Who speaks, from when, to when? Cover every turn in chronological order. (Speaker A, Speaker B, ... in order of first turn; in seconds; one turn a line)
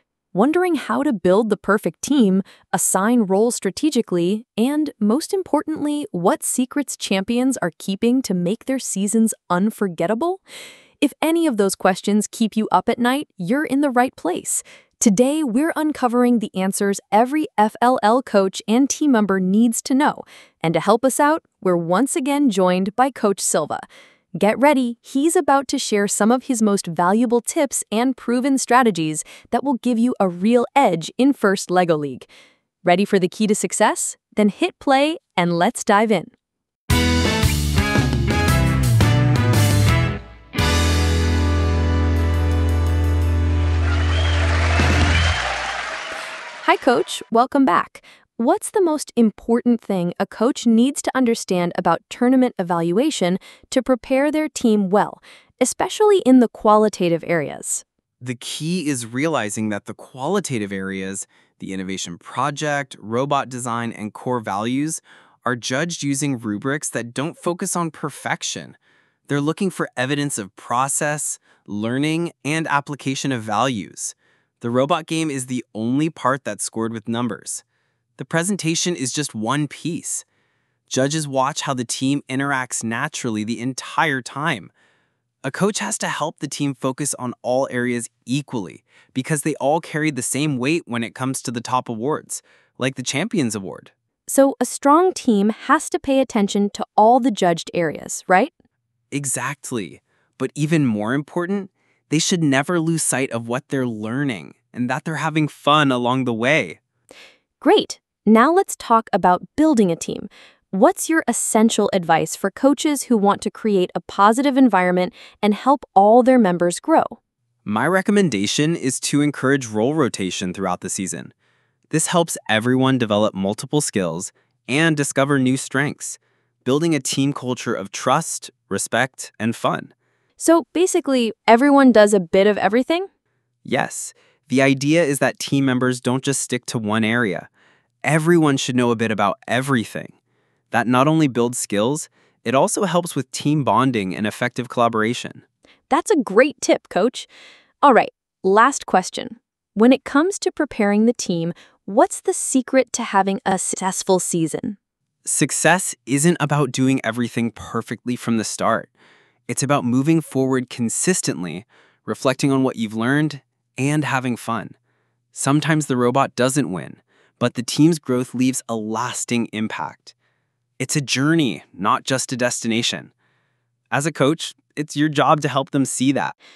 Speaker A: 0.3-10.4
Speaker A: 11.0-23.8
Speaker A: 24.4-32.3
Speaker A: 32.8-36.3
Speaker A: 46.6-57.8
Speaker B: 58.2-77.6
Speaker B: 78.2-80.2
Speaker B: 80.9-84.7
Speaker B: 85.4-93.9
Speaker A: 94.3-98.5
Speaker B: 99.1-106.8
Speaker A: 107.6-117.2
Speaker B: 117.6-121.3
Speaker B: 121.9-129.9
Speaker A: 130.4-133.1
Speaker B: 133.6-137.5
Speaker B: 138.0-140.1
Speaker B: 140.7-145.4
Speaker A: 145.9-147.3
Speaker A: 147.8-154.8
Speaker B: 155.2-158.9
Speaker B: 159.5-164.8
Speaker B: 165.3-170.1
Speaker B: 170.8-173.1
Speaker B: 173.9-176.3